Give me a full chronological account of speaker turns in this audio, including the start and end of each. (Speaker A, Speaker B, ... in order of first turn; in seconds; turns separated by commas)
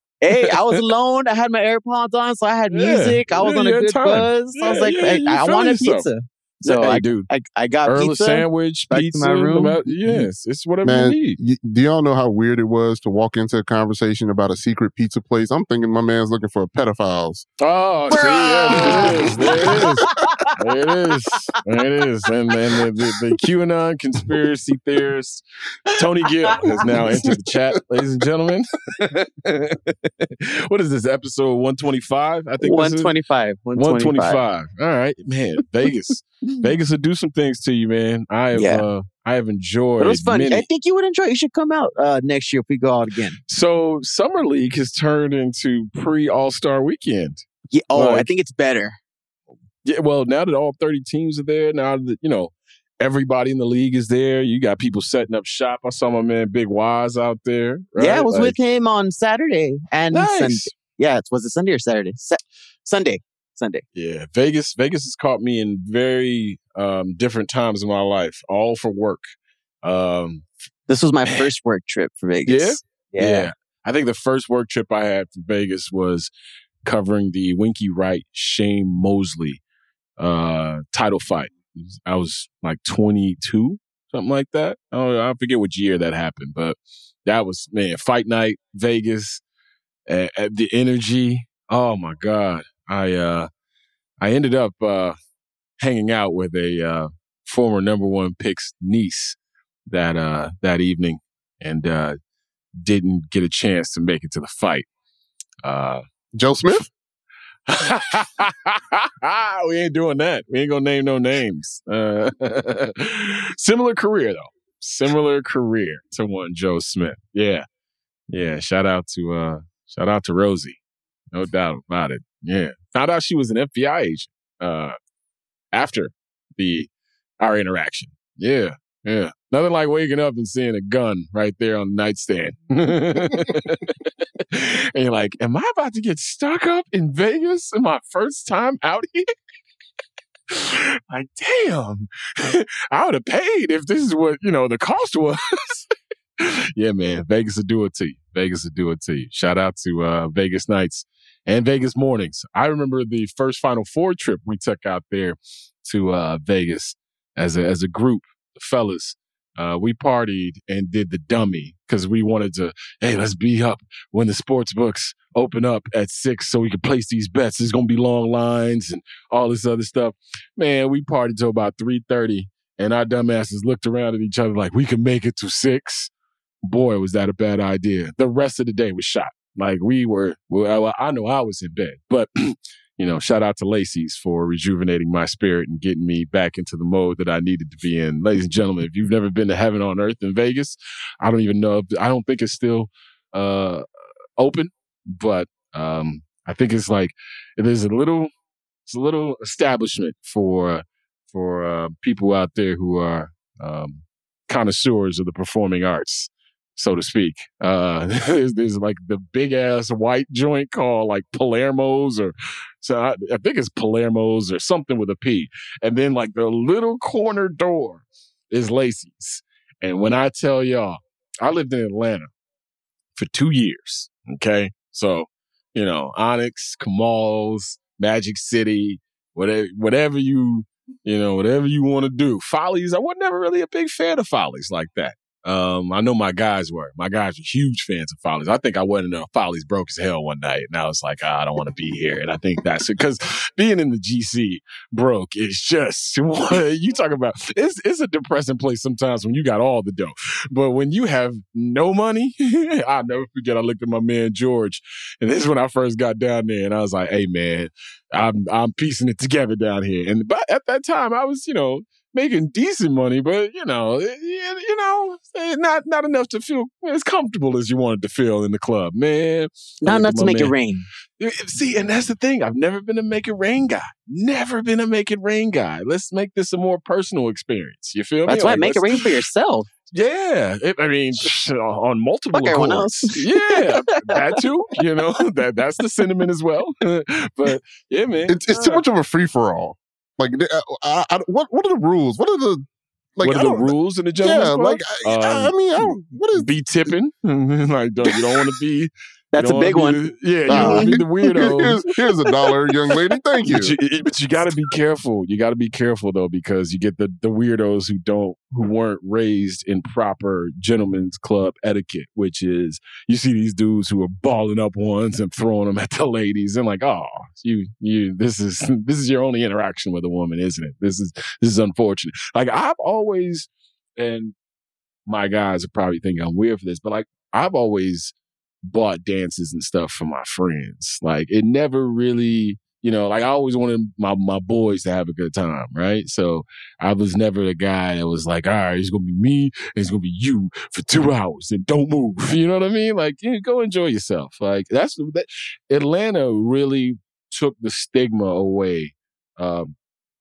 Speaker A: 0.2-10.3, Speaker B: 0.3-0.8, Speaker B: 2.7-6.0, Speaker B: 6.6-7.3, Speaker B: 7.8-11.4, Speaker C: 10.8-17.4, Speaker B: 17.6-25.4, Speaker A: 18.1-20.4, Speaker C: 18.8-19.8, Speaker B: 25.9-33.1, Speaker A: 32.6-34.4, Speaker B: 33.7-40.7, Speaker A: 38.5-38.9, Speaker A: 40.0-43.4, Speaker B: 43.5-48.3, Speaker A: 47.7-49.0, Speaker B: 49.8-58.5, Speaker A: 58.0-63.8, Speaker B: 60.1-60.7, Speaker B: 63.9-69.2, Speaker B: 69.8-70.5, Speaker A: 70.9-73.5, Speaker B: 72.5-76.3, Speaker B: 76.8-79.6, Speaker B: 80.2-89.4, Speaker B: 90.1-93.5, Speaker B: 94.2-95.2, Speaker B: 95.8-102.2, Speaker B: 102.8-104.9, Speaker B: 105.6-106.0, Speaker C: 106.3-106.9, Speaker B: 107.7-117.6, Speaker B: 118.3-120.8, Speaker B: 121.3-124.9, Speaker B: 125.7-126.9, Speaker B: 127.4-139.2, Speaker B: 140.5-145.9, Speaker B: 146.4-176.1, Speaker B: 176.6-193.8, Speaker B: 194.4-198.3, Speaker B: 198.9-222.3, Speaker B: 223.1-270.5, Speaker A: 269.8-270.9, Speaker B: 271.2-279.0, Speaker A: 278.2-279.7, Speaker B: 279.9-288.8, Speaker A: 282.3-284.3, Speaker C: 288.3-292.6, Speaker C: 293.1-296.5, Speaker B: 293.2-301.8, Speaker A: 299.3-300.9, Speaker C: 300.5-303.8, Speaker B: 303.4-324.3, Speaker B: 325.1-349.7